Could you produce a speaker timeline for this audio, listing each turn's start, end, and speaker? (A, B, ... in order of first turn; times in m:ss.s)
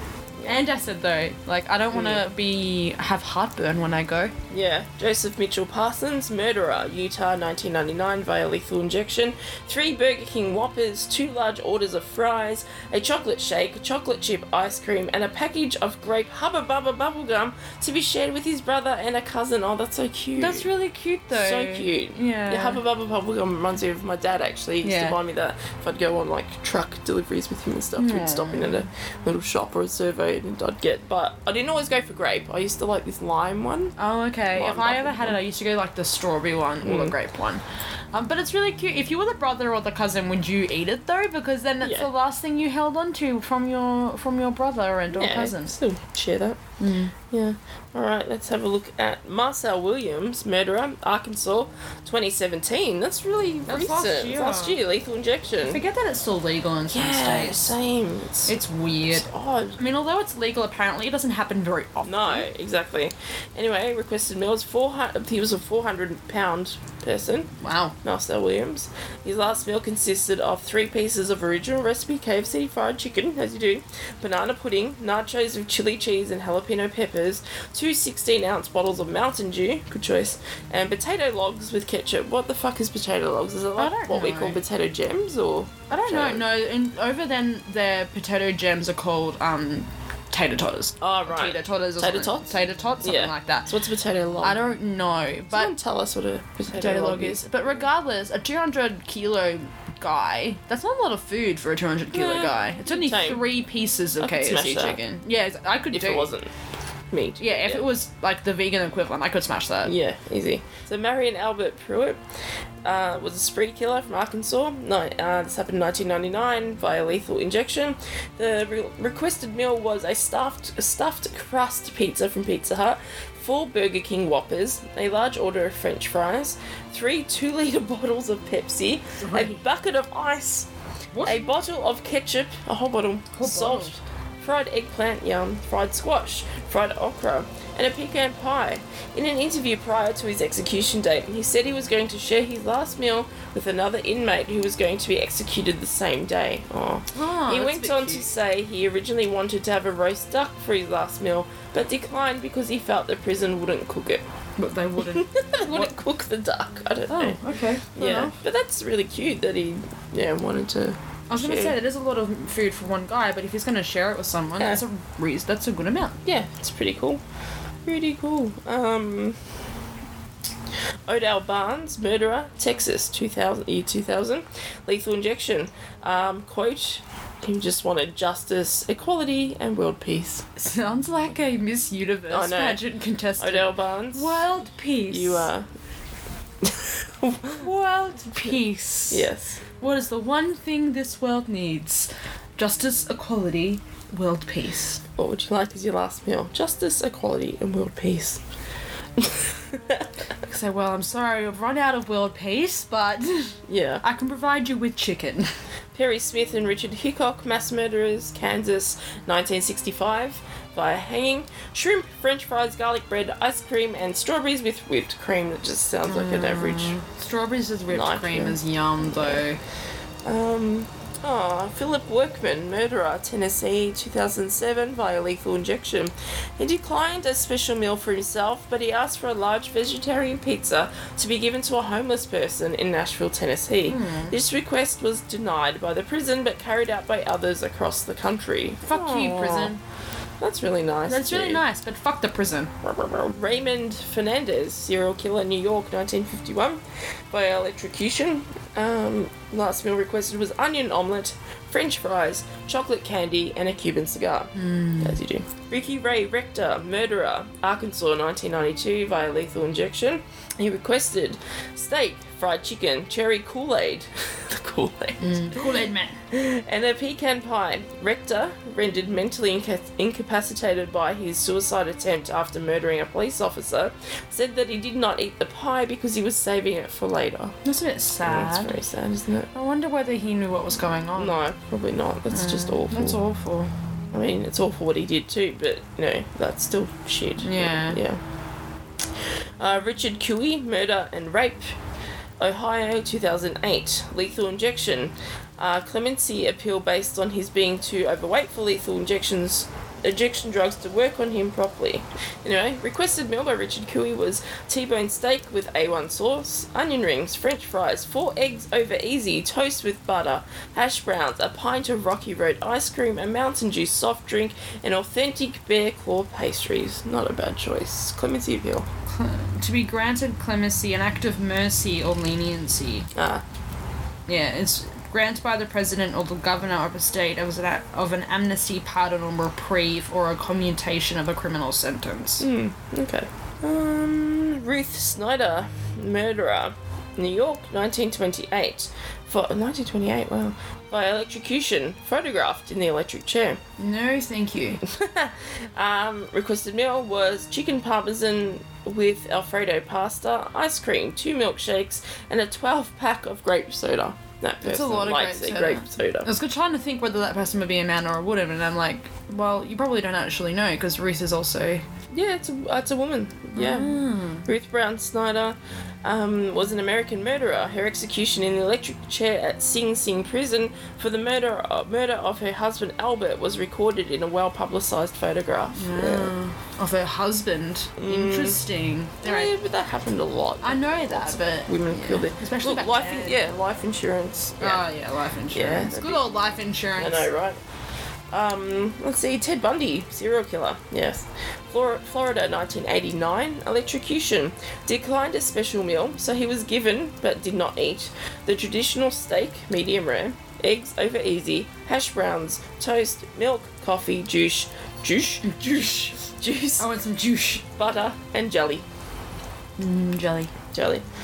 0:00.4-0:00.6 A
0:00.4-0:04.3 B
0:01.9-0:02.2 A
0:04.5-0:20.7 A
0:20.4-0:22.8 B
0:21.3-0:33.9 A
0:24.8-0:25.2 B
0:28.0-0:28.8 B
0:34.0-0:45.7 B
0:34.5-0:35.4 A
0:36.8-0:37.1 A
0:41.8-0:42.1 A
0:45.1-0:46.6 A
0:46.8-0:47.1 B
0:47.3-0:55.8 A
0:53.7-0:54.8 B
0:55.6-0:57.7 B
0:56.9-0:58.5 A
0:58.5-1:02.5 B
0:59.1-0:59.8 A
1:02.0-1:07.5 A
1:07.6-1:07.9 B
1:08.0-1:26.4 A
1:23.8-1:24.6 B
1:25.9-1:33.7 B
1:31.0-1:34.6 A
1:34.4-1:35.7 B
1:35.5-1:37.4 A
1:36.7-1:46.3 B
1:42.1-1:43.4 A
1:44.2-1:45.0 A
1:45.9-1:46.5 A
1:47.1-1:47.9 A
1:47.4-1:49.9 B
1:49.8-1:52.2 A
1:52.8-2:10.7 A
2:09.2-2:09.6 B
2:11.1-2:11.4 B
2:11.2-2:34.2 A
2:13.3-2:13.9 B
2:27.1-2:28.3 B
2:34.6-2:35.9 B
2:35.0-2:37.4 A
2:37.1-2:38.4 B
2:38.0-2:41.8 A
2:41.3-2:46.2 B
2:46.2-2:47.2 A
2:47.8-2:49.4 A
2:51.1-3:00.5 A
3:00.6-3:05.5 B
3:02.3-3:02.8 A
3:03.4-3:04.4 A
3:05.1-3:05.6 A
3:06.6-3:07.7 A
3:07.5-3:09.3 B
3:09.1-3:09.6 A
3:09.8-3:15.0 B
3:15.2-3:18.4 A
3:19.2-3:20.1 A
3:20.4-3:25.5 B
3:23.7-3:24.0 A
3:25.9-3:37.0 A
3:36.1-3:39.6 B
3:37.9-3:39.4 A
3:40.2-3:59.7 A
3:53.9-3:54.3 B
3:58.9-3:59.8 B
4:00.4-4:01.6 A
4:01.1-4:02.7 B
4:02.8-4:37.6 A
4:14.6-4:15.2 B
4:25.2-4:26.2 B
4:37.6-4:38.8 B
4:38.2-4:39.5 A
4:39.5-4:41.3 B
4:41.2-4:43.2 A
4:42.3-4:43.7 B
4:44.1-4:48.2 A
4:47.4-4:48.0 B
4:49.6-4:51.8 A
4:52.4-5:18.8 A
5:19.1-5:23.1 B
5:23.1-5:23.4 A
5:24.3-5:32.5 B
5:32.4-5:43.6 A
5:43.8-5:44.8 B
5:44.8-5:56.3 A
5:54.6-6:01.8 B
6:02.1-6:16.3 A
6:03.5-6:04.5 B
6:15.7-6:19.5 B
6:18.0-6:18.6 A
6:19.2-6:24.8 A
6:20.6-6:23.5 B
6:24.6-6:27.3 B
6:25.5-6:26.2 A
6:27.0-6:27.6 A
6:28.3-6:46.9 A
6:45.4-6:46.1 B
6:46.8-6:47.6 B
6:47.8-6:48.8 A
6:49.8-6:50.5 B
6:50.7-6:51.0 A